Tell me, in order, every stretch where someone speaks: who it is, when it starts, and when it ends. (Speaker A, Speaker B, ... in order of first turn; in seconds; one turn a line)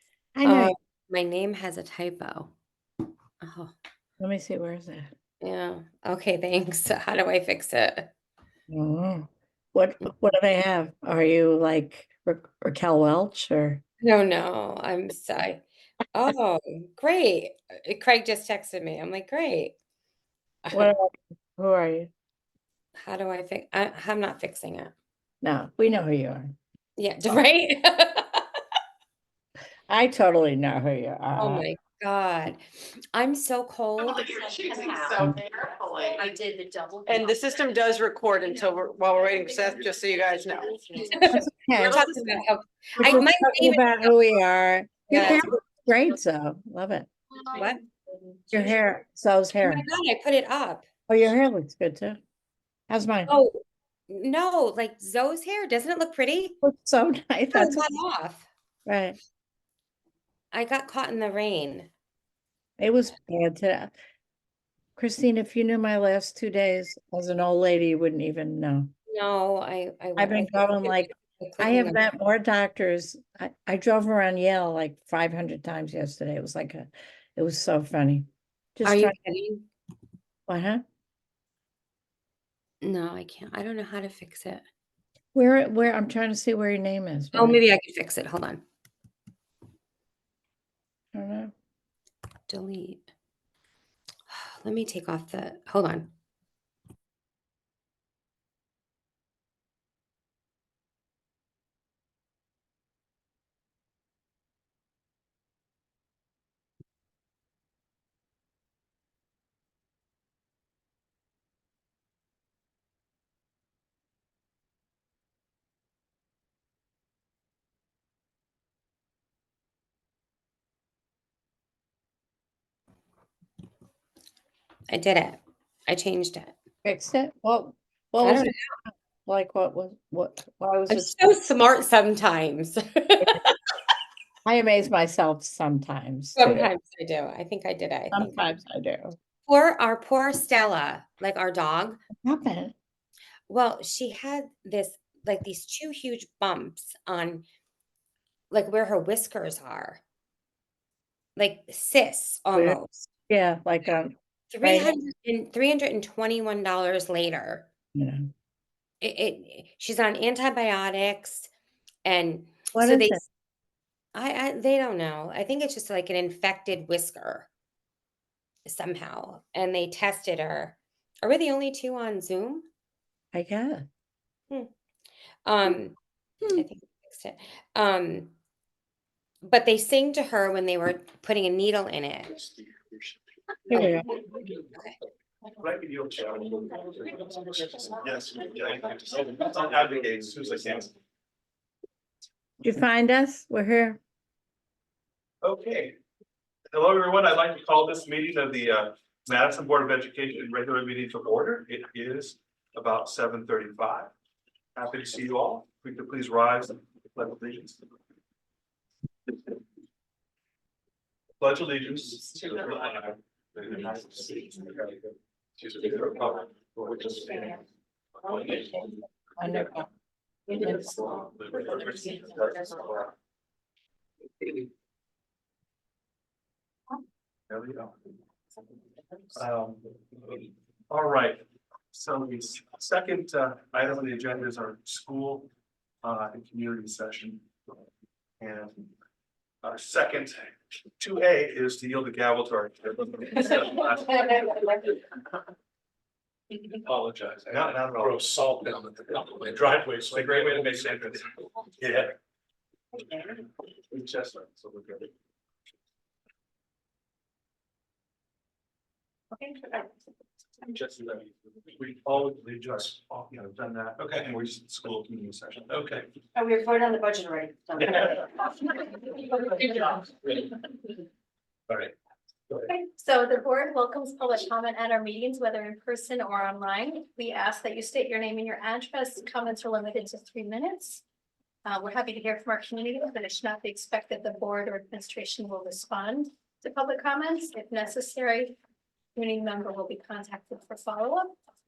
Speaker A: 0.3-0.7
Speaker B: 0.4-2.5
Speaker B: 3.4-3.7
Speaker A: 4.2-5.1
Speaker B: 5.4-8.1
Speaker A: 8.7-13.8
Speaker B: 14.0-19.8
Speaker A: 20.7-22.1
Speaker B: 23.0-24.9
Speaker A: 25.4-26.5
Speaker B: 27.0-28.4
Speaker A: 29.9-31.6
Speaker B: 31.4-32.6
Speaker B: 33.1-34.5
Speaker C: 34.0-41.2
Speaker A: 35.1-35.4
Speaker D: 36.2-37.0
Speaker D: 39.2-41.0
Speaker B: 41.1-44.1
Speaker A: 41.3-42.0
Speaker A: 43.0-47.1
Speaker B: 45.1-45.4
Speaker A: 48.5-49.8
Speaker B: 49.6-50.9
Speaker A: 51.1-52.2
Speaker A: 52.9-53.3
Speaker B: 53.3-56.6
Speaker A: 56.6-57.9
Speaker B: 57.5-58.5
Speaker A: 58.9-59.2
Speaker B: 60.5-61.9
Speaker A: 62.8-63.9
Speaker A: 65.0-68.9
Speaker B: 69.1-72.0
Speaker A: 70.2-79.1
Speaker B: 78.8-79.7
Speaker A: 80.5-80.8
Speaker B: 82.8-84.6
Speaker A: 85.3-87.6
Speaker B: 87.3-88.6
Speaker A: 91.1-91.5
Speaker B: 92.5-93.0
Speaker B: 94.3-96.1
Speaker B: 124.9-126.5
Speaker A: 126.8-131.2
Speaker B: 128.2-128.6
Speaker B: 130.9-133.5
Speaker A: 134.4-136.7
Speaker B: 136.4-138.4
Speaker A: 138.1-139.2
Speaker B: 139.4-142.0
Speaker A: 142.2-142.7
Speaker B: 143.5-147.4
Speaker B: 148.5-150.0
Speaker B: 151.3-153.1
Speaker A: 153.3-154.9
Speaker B: 154.5-157.7
Speaker A: 157.9-158.2
Speaker B: 159.0-161.5
Speaker B: 162.0-163.2
Speaker A: 162.7-163.2
Speaker B: 164.1-167.5
Speaker B: 168.7-172.7
Speaker A: 173.3-173.8
Speaker B: 175.4-176.0
Speaker B: 176.5-178.3
Speaker B: 179.4-182.4
Speaker A: 183.7-184.1
Speaker E: 185.6-190.9
Speaker A: 192.6-194.0
Speaker E: 195.4-195.9
Speaker E: 196.7-204.1
Speaker E: 204.8-207.8
Speaker E: 211.4-215.1
Speaker E: 215.6-217.5
Speaker F: 215.7-216.0
Speaker F: 216.8-217.5
Speaker F: 218.2-218.8
Speaker A: 218.5-219.9
Speaker A: 220.5-220.9
Speaker F: 220.5-222.5
Speaker E: 221.4-223.1
Speaker D: 221.7-222.8
Speaker E: 227.5-227.9
Speaker E: 229.3-229.9
Speaker E: 230.9-235.5
Speaker E: 236.0-237.4
Speaker E: 238.4-238.8
Speaker E: 239.6-244.8
Speaker F: 246.7-251.2
Speaker E: 247.5-248.3
Speaker E: 249.5-251.2
Speaker E: 251.8-252.1
Speaker E: 253.9-255.1
Speaker D: 259.5-259.8
Speaker E: 260.6-266.0
Speaker F: 265.7-266.0
Speaker D: 266.4-268.3
Speaker D: 269.2-269.9
Speaker G: 272.7-281.0
Speaker G: 281.6-288.6
Speaker G: 289.1-291.3